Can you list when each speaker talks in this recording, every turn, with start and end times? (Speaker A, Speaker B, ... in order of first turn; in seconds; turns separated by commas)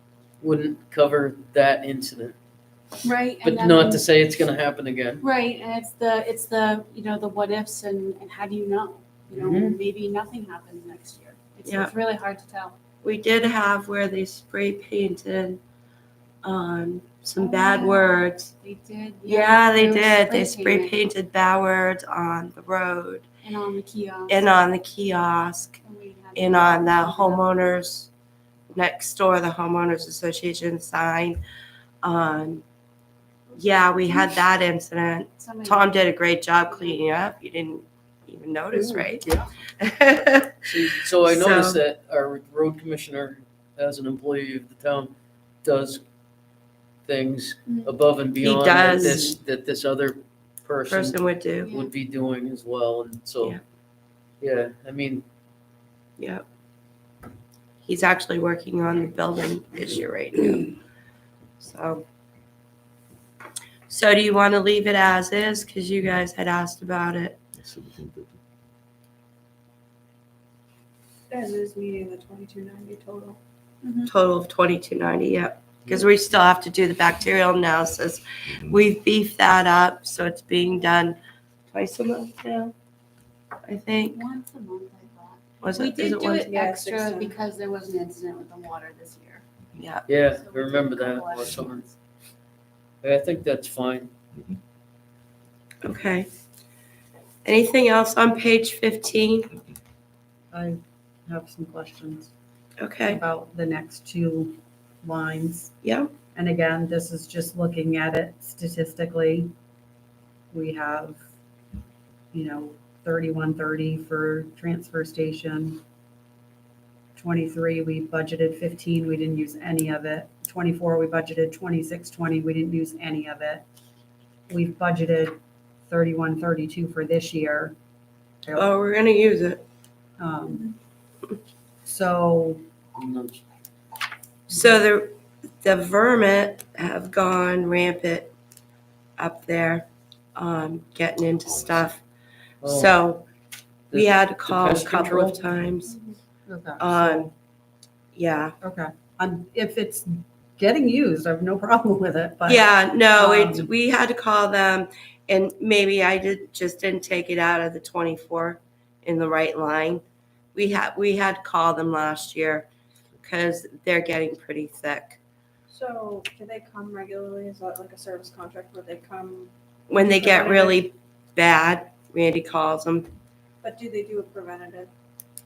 Speaker A: 0.4-2.4, Speaker B: 3.0-4.0, Speaker A: 3.4-5.2, Speaker B: 5.2-12.8, Speaker A: 9.3-9.8, Speaker C: 11.7-11.9, Speaker C: 13.0-15.6, Speaker C: 16.4-18.5, Speaker B: 17.4-20.9, Speaker C: 19.2-23.2, Speaker B: 23.4-24.5, Speaker C: 24.3-25.8, Speaker B: 25.8-27.6, Speaker C: 26.3-28.1, Speaker C: 28.7-31.4, Speaker C: 32.0-32.6, Speaker C: 33.5-39.3, Speaker B: 35.4-36.0, Speaker B: 36.7-37.0, Speaker D: 38.8-39.4, Speaker C: 39.8-40.6, Speaker A: 40.6-45.1, Speaker C: 41.2-41.8, Speaker A: 45.6-46.0, Speaker A: 47.0-53.6, Speaker C: 48.4-49.3, Speaker C: 50.9-51.7, Speaker B: 51.6-51.9, Speaker A: 54.4-55.2, Speaker C: 56.2-56.4, Speaker C: 57.8-60.8, Speaker C: 61.6-62.0, Speaker C: 63.9-67.4, Speaker E: 71.3-73.4, Speaker C: 74.1-81.2, Speaker C: 81.7-82.7, Speaker C: 83.7-84.2, Speaker B: 84.1-89.4, Speaker C: 85.6-86.5, Speaker E: 85.9-87.4, Speaker C: 89.8-90.0, Speaker A: 90.1-91.8, Speaker B: 90.2-92.0, Speaker A: 93.0-94.1, Speaker C: 95.8-96.3, Speaker C: 97.4-99.5, Speaker D: 101.3-102.3, Speaker C: 102.8-103.2, Speaker D: 103.1-105.7, Speaker C: 105.8-106.1, Speaker D: 106.3-109.5, Speaker D: 110.5-111.2, Speaker D: 112.3-115.8, Speaker D: 117.2-123.6, Speaker D: 124.5-125.3, Speaker D: 125.9-127.7, Speaker C: 128.5-129.6, Speaker D: 130.2-130.7, Speaker D: 131.8-132.6, Speaker A: 133.0-133.4, Speaker C: 134.5-138.3, Speaker C: 139.2-142.0, Speaker A: 142.6-142.9, Speaker C: 142.6-143.3, Speaker A: 143.9-145.5, Speaker C: 143.9-146.0, Speaker D: 146.5-147.3, Speaker C: 146.8-147.3, Speaker C: 148.1-148.6, Speaker D: 148.6-153.7, Speaker C: 152.5-160.0, Speaker C: 160.5-162.7, Speaker C: 163.2-165.2, Speaker E: 165.7-170.8, Speaker C: 169.9-173.1, Speaker E: 173.6-174.9